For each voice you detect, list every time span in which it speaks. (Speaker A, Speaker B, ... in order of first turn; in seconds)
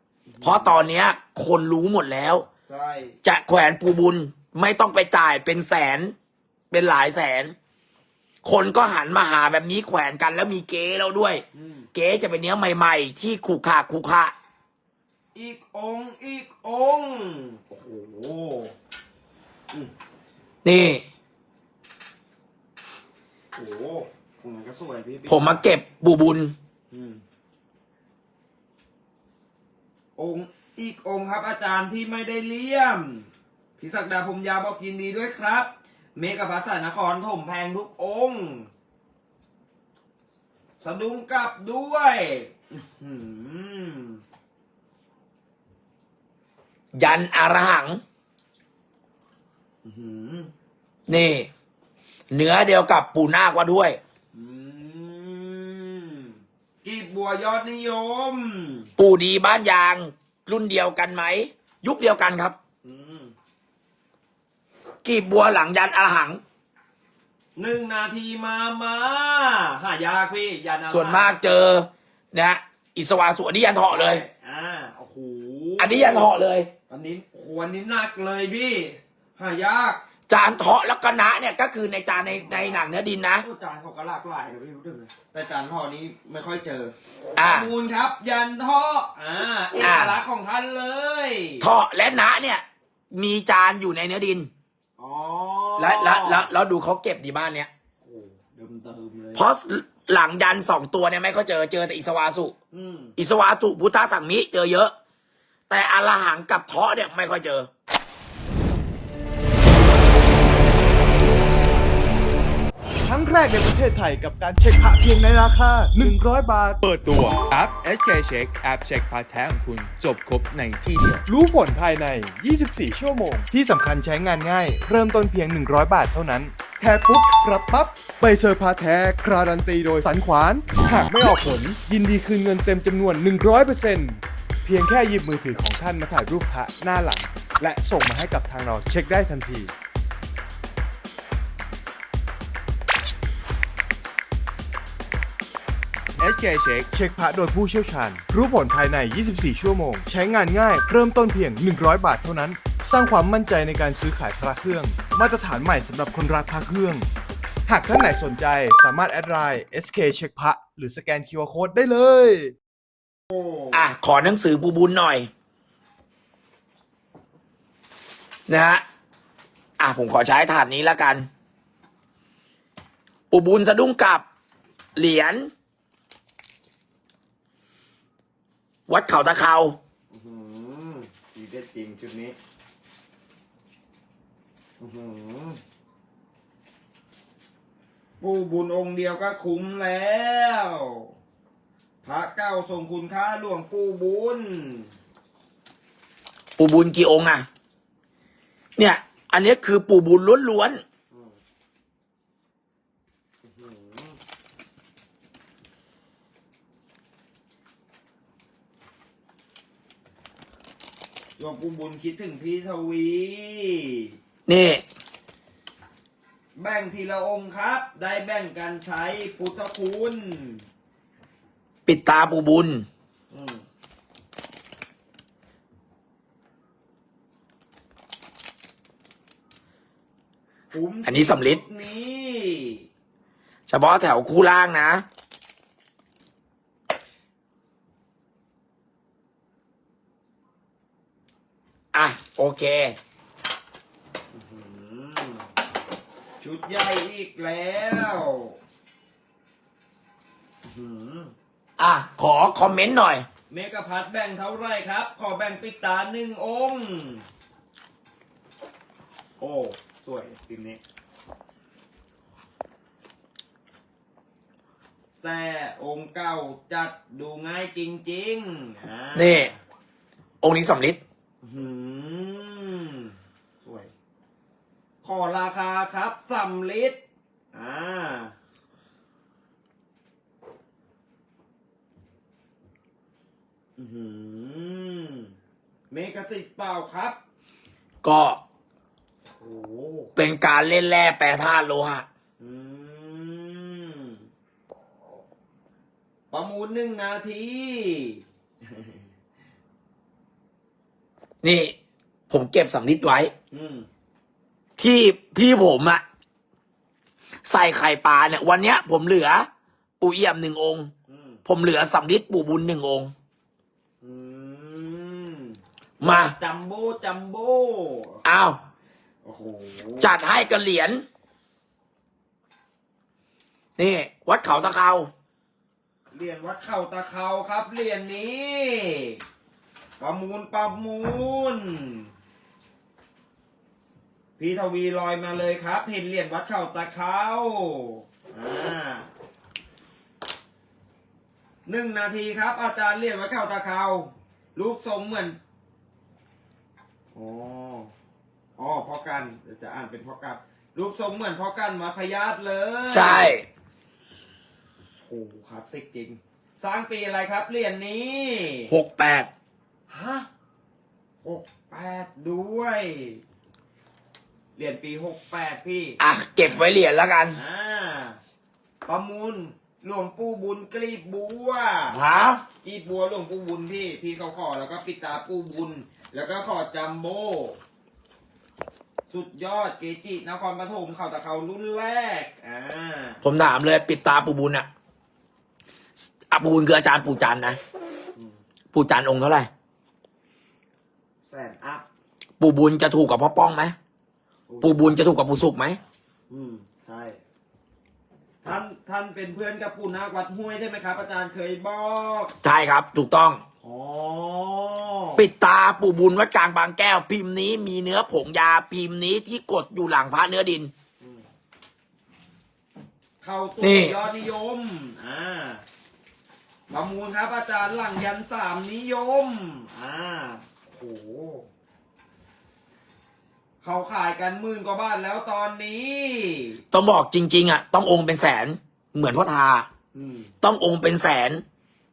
Speaker A: 0.3-0.8, 2.7-3.2, 11.5-11.9, 15.3-18.7, 23.5-25.6, 26.9-27.2, 30.2-33.3, 33.8-38.7, 40.8-44.2, 49.9-50.5, 54.3-58.9, 62.8-63.3, 67.6-71.4, 73.9-76.3, 76.9-80.0, 83.4-91.7, 95.0-96.5, 98.0-99.5, 102.7-103.2, 163.3-163.8, 180.1-182.4, 184.8-185.6, 188.2-191.1, 192.0-194.9, 203.4-204.2, 211.4-214.2, 216.6-220.6, 223.3-223.7, 230.7-232.9, 244.3-245.5, 246.4-248.6, 250.6-251.3, 253.5-257.2, 259.4-260.8, 265.2-269.6, 271.4-273.9, 275.0-277.0, 277.5-278.3, 283.8-285.3, 285.9-287.2, 289.3-290.1, 292.4-294.2, 296.3-299.0, 303.5-303.9, 311.1-311.4, 314.0-318.2, 319.2-320.1, 326.1-329.2, 330.0-332.1, 334.4-339.1, 341.7-345.4, 347.1-347.9, 348.6-353.3, 355.0-358.7, 359.9-360.3, 361.2-363.2, 364.6-366.0, 367.4-368.2, 368.9-372.0, 372.6-377.6, 379.1-383.2, 388.1-388.4, 391.3-391.9, 394.5-394.8, 396.3-397.2, 398.4-402.3, 403.6-405.2, 413.2-415.6, 416.7-421.5, 423.6-426.6, 429.9-430.3
Speaker B: 0.4-2.5, 3.2-6.1, 6.7-7.5, 8.4-14.3, 20.6-21.0, 25.3-26.6, 47.0-48.0, 51.1-51.5, 52.3-54.0, 59.0-62.6, 65.0-66.4, 70.9-74.2, 75.8-76.7, 80.3-83.5, 87.4-87.7, 89.8-90.2, 91.6-94.5, 95.8-97.7, 99.4-102.5, 103.2-104.9, 105.7-107.7, 163.7-165.3, 168.5-168.8, 169.8-171.3, 173.3-174.2, 175.0-175.5, 178.9-179.8, 196.6-197.5, 198.8-200.8, 214.5-214.8, 221.9-222.9, 231.1-231.6, 233.7-235.1, 241.9-242.9, 251.8-253.3, 269.1-269.5, 270.4-271.0, 288.0-288.4, 290.2-292.1, 301.4-301.8, 302.3-303.3, 304.8-306.0, 307.4-309.5, 310.0-310.9, 311.4-313.1, 316.0-316.3, 318.2-318.6, 320.0-321.0, 323.8-325.1, 352.9-353.4, 358.7-359.3, 366.0-367.4, 371.9-372.4, 383.2-384.7, 386.3-387.6, 388.7-389.5, 392.4-393.8, 394.6-395.8, 402.4-403.4, 405.2-410.7, 413.6-414.0, 426.7-429.7, 430.4-431.4
Speaker C: 113.0-116.8, 121.3-139.7, 146.9-157.1, 157.7-162.6
Speaker D: 116.8-121.2, 146.2-146.9